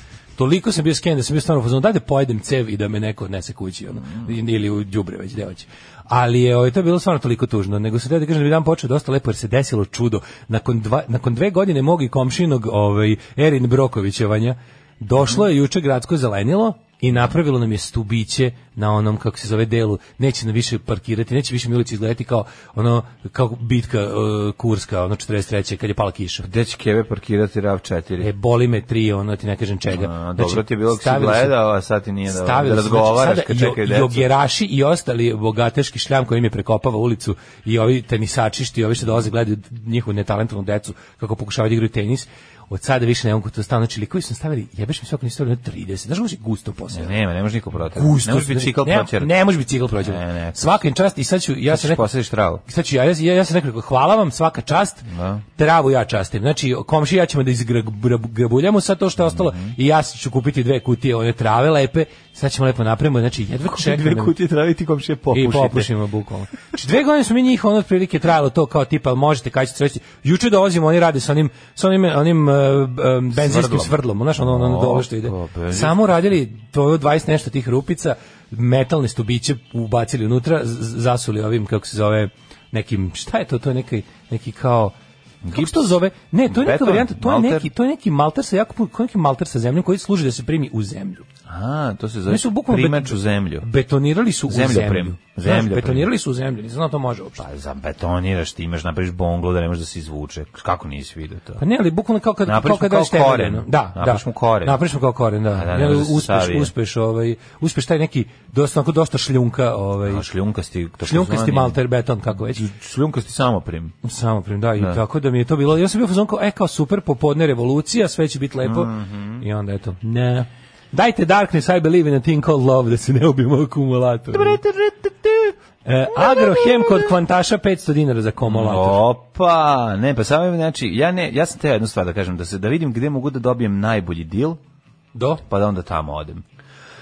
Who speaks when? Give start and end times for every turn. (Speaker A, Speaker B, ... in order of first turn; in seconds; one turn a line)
Speaker A: 0.4-26.5
Speaker B: 26.4-28.3
Speaker A: 28.2-31.6
Speaker B: 29.9-34.3
Speaker A: 32.3-47.1
Speaker B: 46.9-49.3
Speaker A: 47.9-52.0
Speaker B: 50.0-50.8
Speaker B: 51.7-52.6
Speaker A: 52.6-64.3
Speaker B: 55.0-55.4
Speaker B: 59.2-59.7
Speaker B: 63.6-65.9
Speaker A: 65.3-84.9
Speaker B: 73.3-76.1
Speaker B: 85.4-87.7
Speaker A: 85.5-91.2
Speaker B: 91.5-93.7
Speaker A: 92.3-97.4
Speaker B: 94.5-96.1
Speaker B: 97.4-101.6
Speaker A: 101.6-110.2
Speaker B: 102.4-104.8
Speaker B: 105.5-106.7
Speaker B: 110.0-111.8
Speaker A: 111.0-112.6
Speaker B: 112.3-114.0
Speaker A: 114.0-124.6
Speaker B: 118.6-119.4
Speaker B: 124.3-125.5
Speaker A: 125.8-129.0
Speaker B: 126.2-127.1
Speaker B: 128.4-134.6
Speaker A: 135.1-135.4
Speaker B: 135.4-136.4